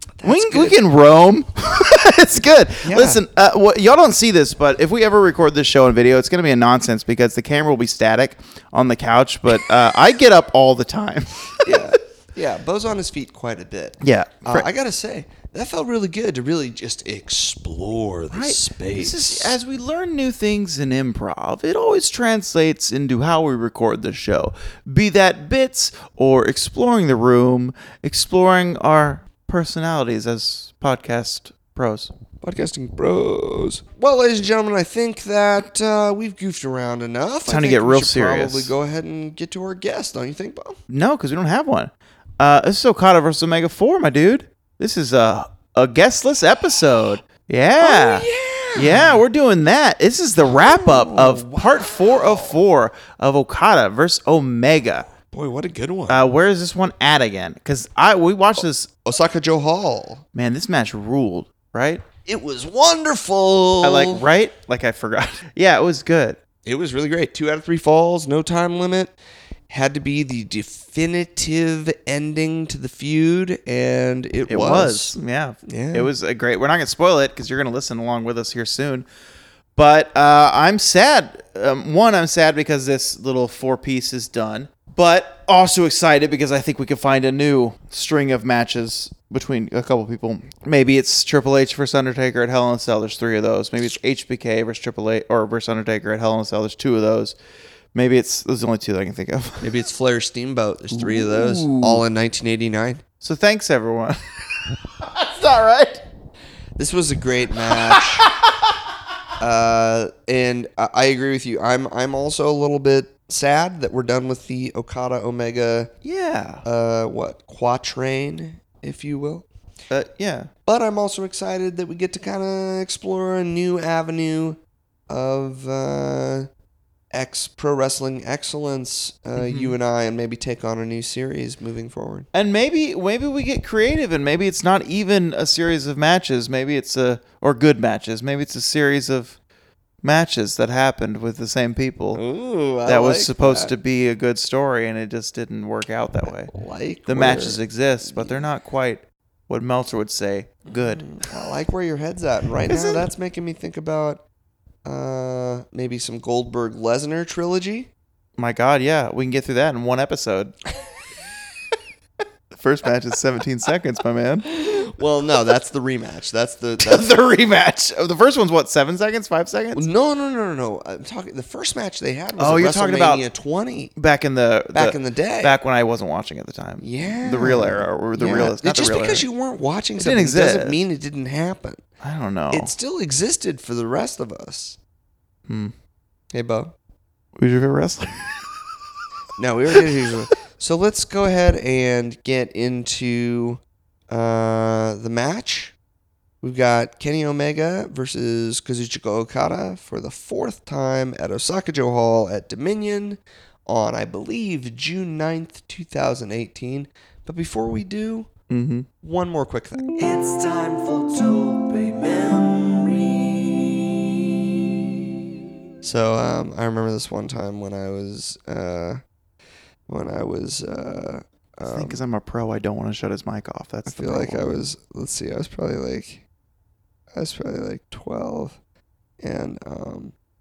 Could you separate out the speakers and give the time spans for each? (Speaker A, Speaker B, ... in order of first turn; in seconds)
Speaker A: 0.2-0.8, 2.8-3.2, 11.6-19.6, 32.4-40.8, 47.8-49.2, 50.5-52.6, 55.3-56.3, 59.0-60.2, 62.3-64.2, 66.7-69.2, 69.7-76.1, 99.6-103.0, 106.8-108.3, 109.4-115.9, 116.6-119.5, 120.7-124.6, 125.1-126.5, 127.1-132.3, 142.2-143.7, 146.4-148.4, 150.7-154.2, 154.8-157.9, 164.5-167.1, 169.8-173.9, 174.7-175.6, 176.8-181.8, 182.5-184.8, 186.3-186.7, 189.4-195.7, 196.4-208.3, 209.0-210.2, 215.8-219.0, 219.9-222.0, 223.9-226.2, 227.1-228.6, 229.2-230.1
Speaker B: 0.2-11.9, 14.0-14.7, 18.3-32.1, 37.5-38.7, 40.9-55.1, 56.1-58.9, 60.3-62.0, 63.8-66.4, 74.5-79.1, 79.8-97.4, 97.9-99.7, 100.9-102.0, 103.2-106.0, 107.7-108.5, 116.0-116.6, 119.9-120.5, 129.4-129.8, 132.3-139.4, 140.0-142.2, 142.8-146.5, 147.1-151.2, 152.6-153.1, 158.4-160.5, 162.5-164.4, 166.8-169.9, 172.4-173.3, 174.0-179.3, 180.0-180.8, 182.0-182.7, 185.5-185.7, 187.4-188.6, 208.5-208.9, 221.6-224.5
Speaker C: 210.0-213.0